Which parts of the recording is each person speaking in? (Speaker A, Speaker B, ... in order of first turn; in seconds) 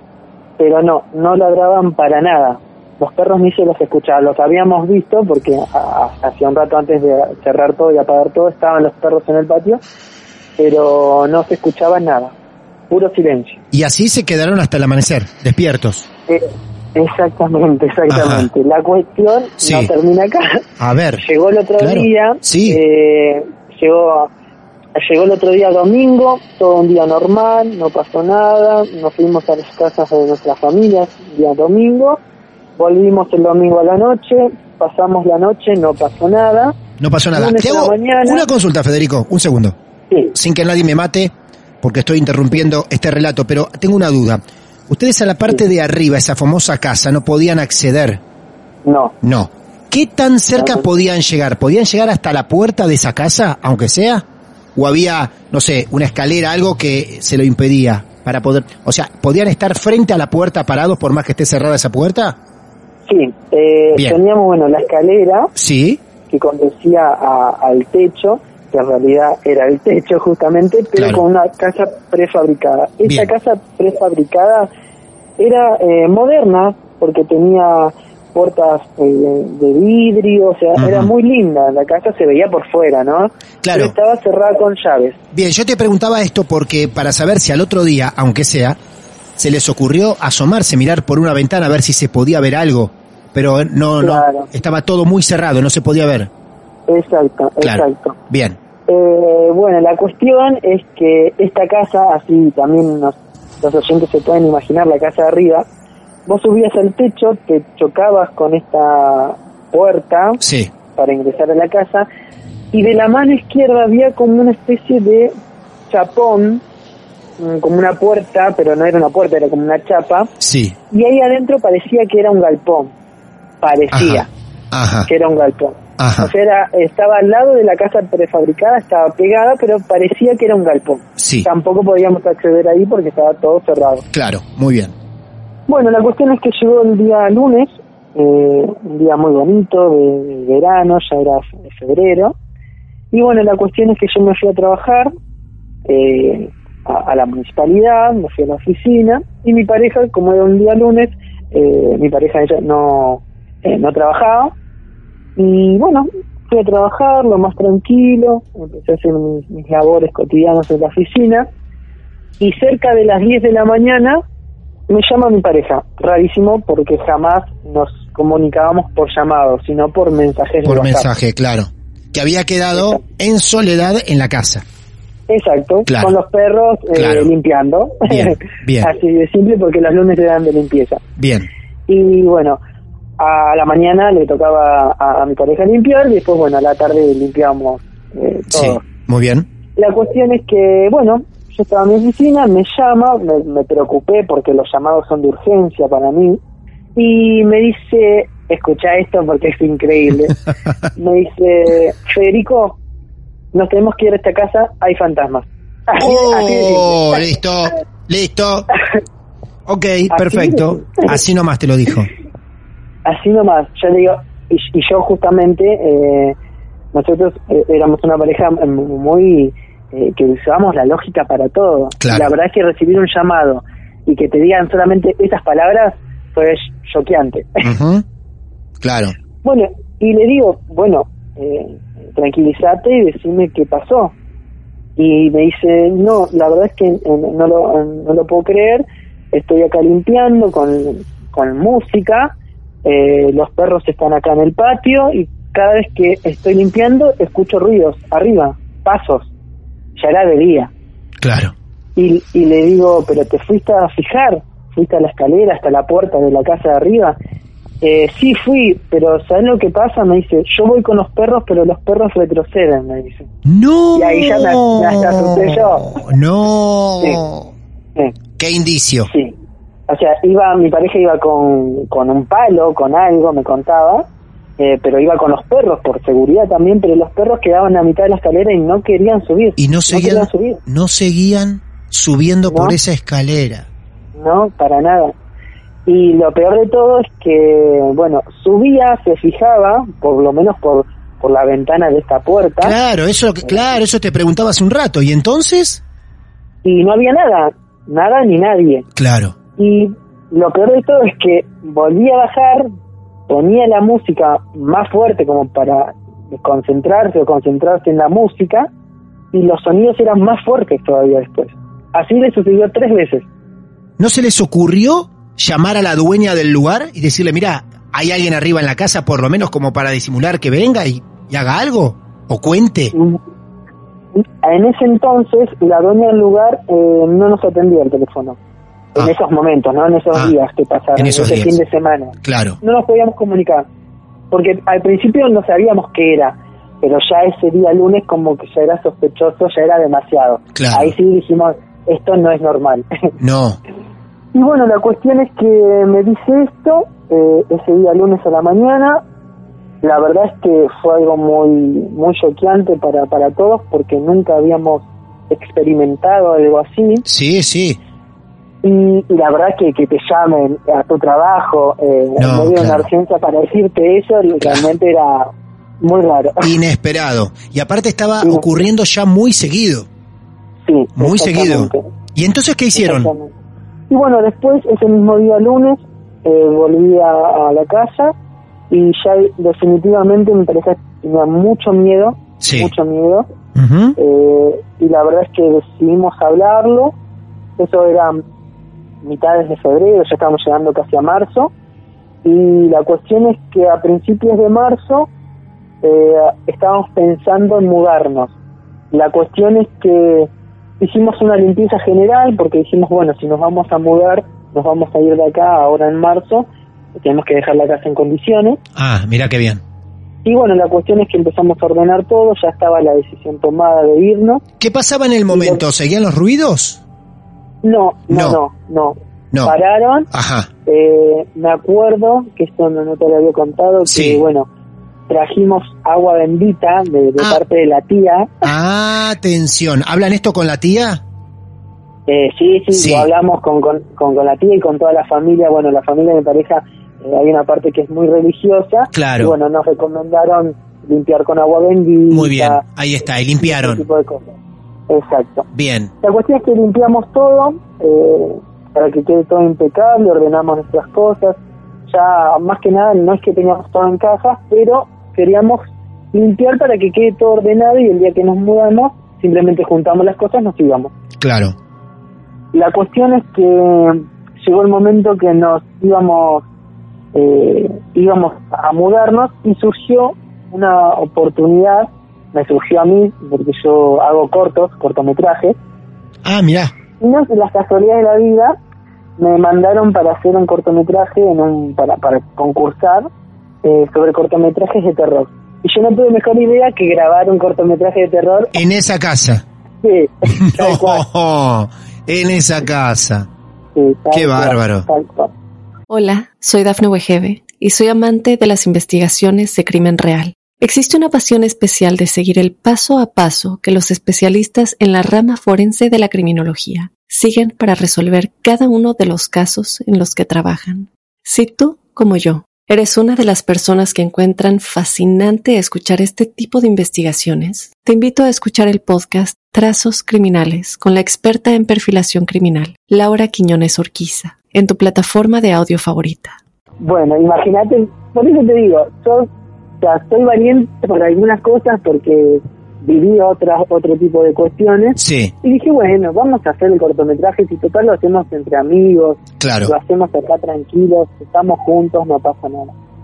Speaker A: 0.6-9.8, 10.6-12.3, 12.9-13.6, 16.3-20.6, 21.2-24.3, 24.9-32.2, 32.8-36.8, 37.3-38.4, 48.8-49.1, 50.6-50.8, 63.1-65.5, 66.3-74.7, 75.4-85.2, 94.0-94.5, 96.9-98.2, 98.9-105.6, 106.2-110.4, 111.0-112.1, 112.7-115.3, 115.9-116.6, 117.4-120.3, 120.9-122.9, 123.6-124.3, 125.0-134.0, 135.7-142.3, 143.1-145.1, 145.9-154.5, 155.3-161.5, 162.4-164.2, 164.9-171.1, 172.7-173.0, 175.3-181.0, 181.9-182.6, 183.2-188.8, 189.8-196.4, 196.9-200.4, 200.9-202.8, 203.5-207.2, 210.1-211.2, 213.0-216.3, 216.9-227.7, 229.4-234.1, 235.0-242.3, 242.8-249.3, 249.9-250.7, 251.9-257.1, 257.8-263.3, 263.9-266.0, 269.1-269.3, 269.9-274.1, 274.6-280.6, 282.5-282.8, 284.1-285.1, 285.9-292.8, 296.6-298.9, 299.6-302.7, 303.3-308.7, 309.3-313.2, 322.9-323.2, 324.1-328.4, 328.9-333.7, 334.3-342.9, 344.3-349.0, 349.8-357.0, 358.6-365.3, 365.8-366.5, 368.2-368.6, 370.6-371.8, 372.8-373.3, 373.9-378.1, 378.7-383.3, 384.0-386.9, 387.6-388.2, 389.0-391.5, 392.2-395.1, 395.8-398.3, 398.9-408.6, 410.2-414.4, 415.3-415.6, 417.6-420.1, 420.6-424.5, 425.1-428.5, 432.1-442.6, 443.4-444.2, 444.9-445.5, 446.0-455.6, 456.1-460.9, 462.5-466.4, 467.1-475.6, 477.0-478.5, 479.2-483.1, 483.6-488.6, 489.8-491.0, 493.7-495.3, 526.8-529.3, 529.8-542.7
Speaker B: 13.7-16.1, 18.1-18.5, 19.6-19.9, 20.8-21.2, 21.8-22.8, 37.0-39.8, 40.3-48.2, 49.2-62.4, 65.5-66.0, 71.0-71.2, 73.0-73.3, 80.8-81.1, 83.6-83.9, 85.3-88.8, 89.4-96.3, 97.6-98.6, 110.4-110.7, 120.4-120.8, 123.9-125.1, 126.0-126.3, 131.2-131.5, 134.1-134.9, 170.7-174.6, 175.8-176.2, 176.9-177.3, 178.1-178.9, 181.2-181.5, 188.5-189.5, 205.9-208.7, 209.7-212.1, 222.0-222.3, 227.6-228.0, 228.8-229.2, 251.2-251.5, 263.4-267.5, 268.4-269.1, 279.6-283.7, 292.6-295.8, 298.9-299.4, 314.0-322.9, 330.9-331.5, 332.2-332.6, 340.5-340.9, 343.2-343.6, 357.1-357.8, 362.2-362.9, 364.4-364.7, 366.4-369.9, 371.0-373.1, 382.4-382.7, 383.5-383.9, 408.8-409.6, 414.6-416.8, 418.1-418.4, 420.1-420.5, 423.9-424.2, 428.4-431.0, 432.7-433.1, 438.9-439.3, 442.1-443.8, 445.5-445.9, 461.2-461.6, 476.2-476.7, 488.5-489.4, 490.3-493.3, 494.1-494.9, 535.0-535.3, 539.4-539.7
Speaker C: 495.9-526.4